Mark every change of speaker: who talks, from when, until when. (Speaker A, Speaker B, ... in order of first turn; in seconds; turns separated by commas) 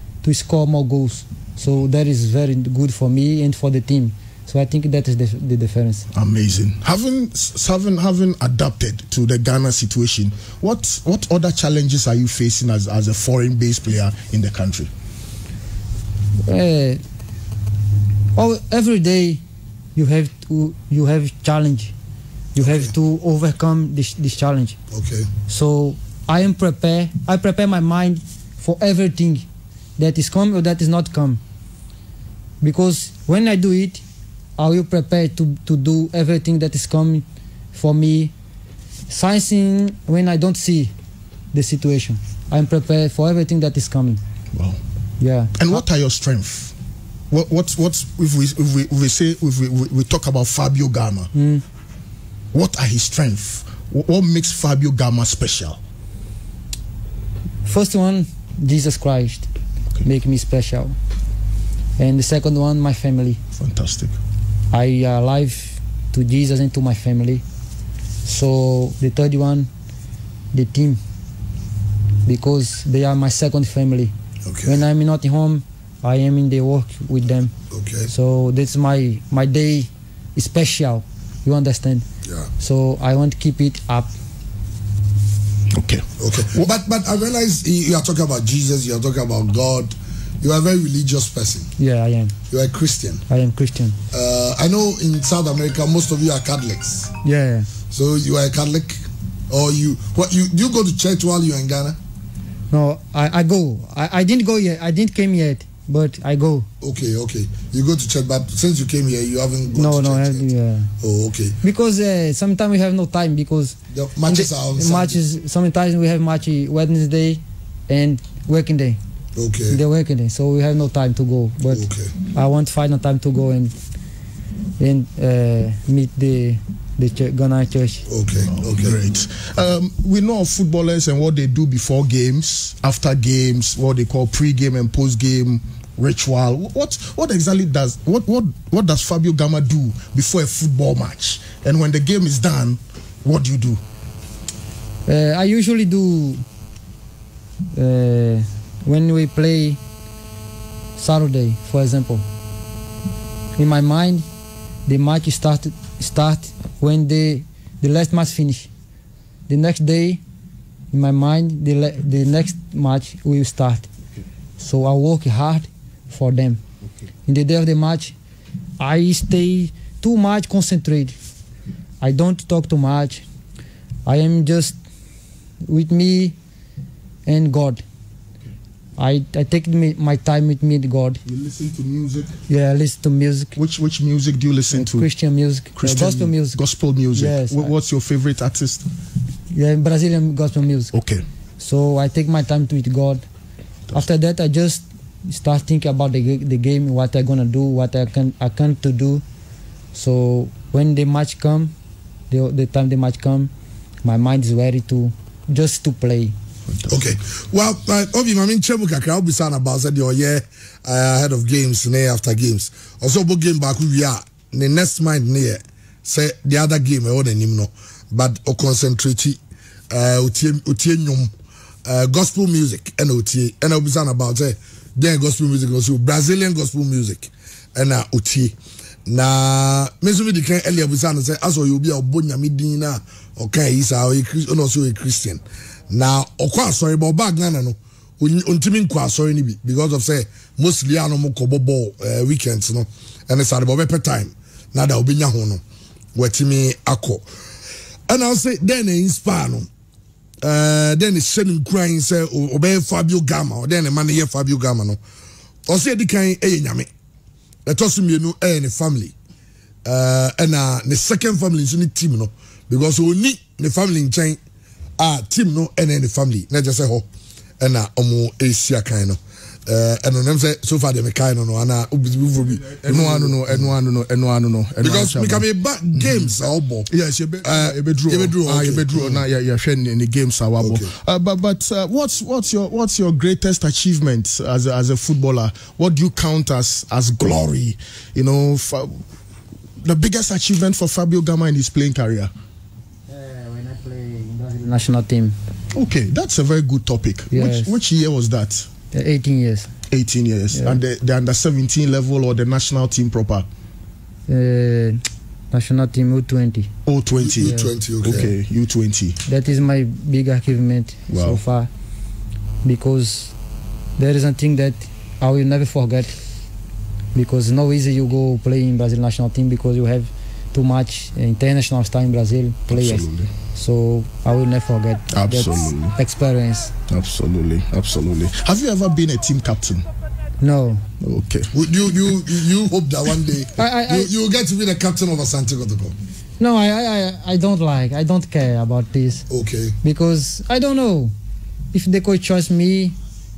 Speaker A: 0.2-6.0, Speaker B: 6.1-14.9, Speaker A: 16.4-17.0, Speaker A: 18.4-19.4, Speaker A: 19.9-21.9, Speaker A: 22.5-24.8, Speaker C: 22.6-22.9, Speaker C: 24.9-25.3, Speaker A: 25.5-29.4, Speaker A: 30.0-31.4, Speaker A: 32.6-34.0, Speaker A: 34.6-38.3, Speaker A: 39.1-40.9, Speaker A: 41.5-44.2, Speaker B: 44.5-44.8, Speaker A: 45.2-45.6, Speaker B: 45.6-46.7, Speaker B: 47.3-51.3, Speaker A: 51.3-51.6, Speaker B: 52.5-55.8, Speaker A: 57.6-59.5, Speaker A: 60.0-60.9, Speaker A: 62.0-63.4, Speaker B: 63.5-64.2, Speaker A: 64.7-67.4, Speaker A: 68.2-69.7, Speaker A: 70.5-71.0, Speaker A: 72.2-74.1, Speaker C: 74.5-74.8, Speaker A: 74.6-77.5, Speaker C: 77.7-78.1, Speaker A: 78.1-82.0, Speaker A: 82.6-84.1, Speaker B: 85.7-86.7, Speaker C: 86.2-91.7, Speaker A: 91.8-92.3, Speaker C: 92.5-93.2, Speaker A: 93.3-94.0, Speaker C: 94.1-97.1, Speaker A: 97.2-97.7, Speaker C: 97.9-102.0, Speaker A: 102.7-106.7, Speaker C: 106.8-110.5, Speaker A: 109.7-110.9, Speaker C: 111.0-111.6, Speaker A: 111.6-119.0, Speaker C: 113.9-115.2, Speaker C: 119.3-119.8, Speaker A: 119.7-123.7, Speaker C: 121.7-122.1, Speaker A: 124.8-128.0, Speaker C: 128.1-129.0, Speaker B: 128.6-143.8, Speaker A: 145.1-146.4, Speaker A: 147.7-149.8, Speaker A: 151.0-152.2, Speaker A: 153.6-154.2, Speaker A: 154.8-158.7, Speaker A: 159.5-160.2, Speaker A: 160.9-163.9, Speaker A: 164.6-166.6, Speaker A: 167.2-168.1, Speaker A: 168.8-171.1, Speaker A: 172.0-173.2, Speaker A: 174.1-174.7, Speaker A: 175.6-176.3, Speaker A: 177.2-177.8, Speaker A: 179.0-181.2, Speaker B: 181.2-182.3, Speaker A: 182.5-183.5, Speaker B: 183.6-185.1, Speaker A: 184.7-186.6, Speaker B: 185.8-188.8, Speaker A: 187.1-187.7, Speaker A: 189.5-190.9, Speaker B: 190.9-191.2, Speaker A: 191.6-193.2, Speaker A: 193.9-199.2, Speaker A: 199.9-201.7, Speaker A: 202.3-203.5, Speaker A: 204.0-206.3, Speaker B: 206.7-206.9, Speaker C: 206.9-219.4, Speaker C: 219.9-221.3, Speaker C: 221.8-245.6, Speaker C: 246.1-247.2, Speaker C: 248.1-249.7, Speaker C: 250.4-255.0, Speaker C: 255.7-256.9, Speaker C: 257.6-259.1, Speaker C: 259.8-264.4, Speaker C: 265.0-267.1, Speaker C: 267.6-273.7, Speaker B: 272.6-276.2, Speaker C: 274.8-276.9, Speaker B: 276.9-289.0, Speaker C: 277.4-279.2, Speaker C: 280.6-280.9, Speaker B: 289.8-292.3, Speaker A: 293.1-295.4, Speaker B: 295.7-298.7, Speaker A: 297.3-297.8, Speaker A: 298.9-299.7, Speaker B: 299.9-303.4, Speaker A: 300.5-300.8, Speaker A: 304.3-306.7, Speaker B: 306.9-309.2, Speaker C: 307.1-308.3, Speaker A: 307.4-307.7, Speaker A: 309.2-311.7, Speaker B: 311.1-311.4, Speaker A: 312.6-313.3, Speaker A: 314.0-316.1, Speaker A: 317.1-326.7, Speaker B: 322.7-323.3, Speaker B: 325.1-326.0, Speaker B: 326.9-329.9, Speaker A: 330.4-330.8, Speaker B: 331.0-331.5, Speaker C: 331.5-335.9, Speaker A: 333.6-334.1, Speaker A: 336.4-339.2, Speaker C: 339.3-339.8, Speaker A: 339.8-341.1, Speaker A: 341.7-342.9